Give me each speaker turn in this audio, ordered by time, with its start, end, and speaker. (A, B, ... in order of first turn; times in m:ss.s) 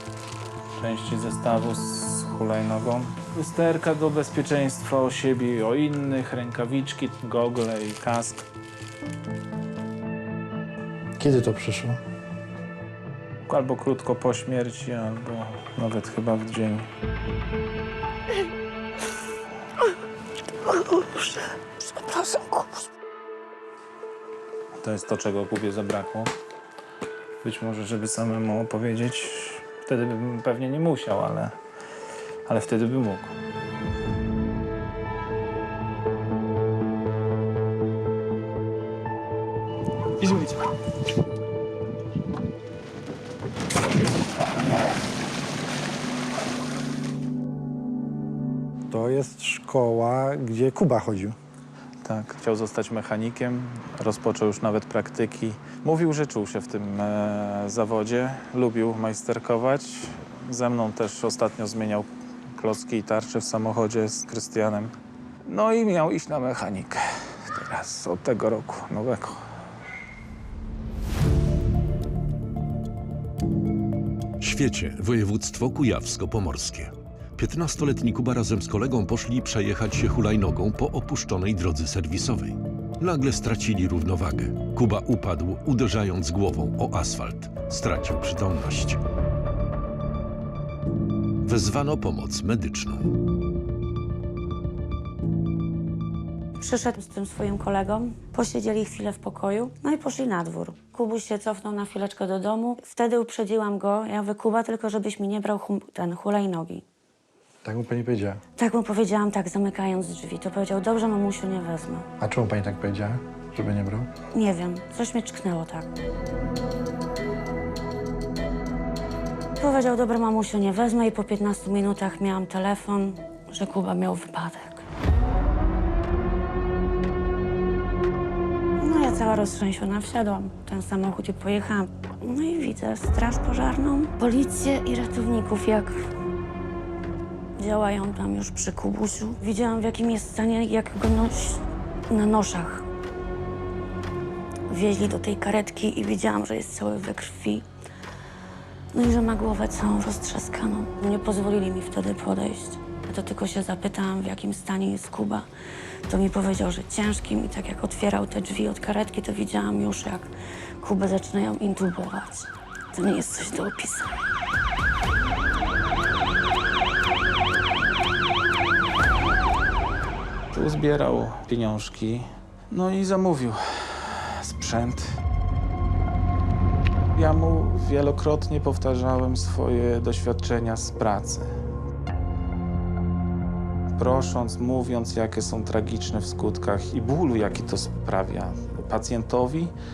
0:00.8-0:08.5 A
0:11.2-0:12.0 B
0:13.5-0:16.9 A
0:20.6-0:22.8 C
0:24.8-0:26.3 A
0:27.4-0:31.6 A
0:32.5-0:33.3 A
0:40.2-0:40.6 A
0:48.9-0:51.4 B
0:52.0-1:04.9 A
1:05.5-1:09.5 A
1:14.4-1:29.0 D
1:31.4-1:33.1 D
1:36.6-1:46.9 C
1:47.6-1:48.4 B
1:48.6-1:52.1 C
1:52.2-1:54.1 B
1:54.3-1:55.9 C
1:59.6-2:04.9 C
2:08.8-2:16.1 C
2:17.6-2:22.9 C
2:24.7-2:27.7 C
2:28.9-2:35.5 C
2:36.1-2:44.2 C
2:50.5-2:55.1 A
2:57.2-3:01.5 A
3:04.0-3:09.7 A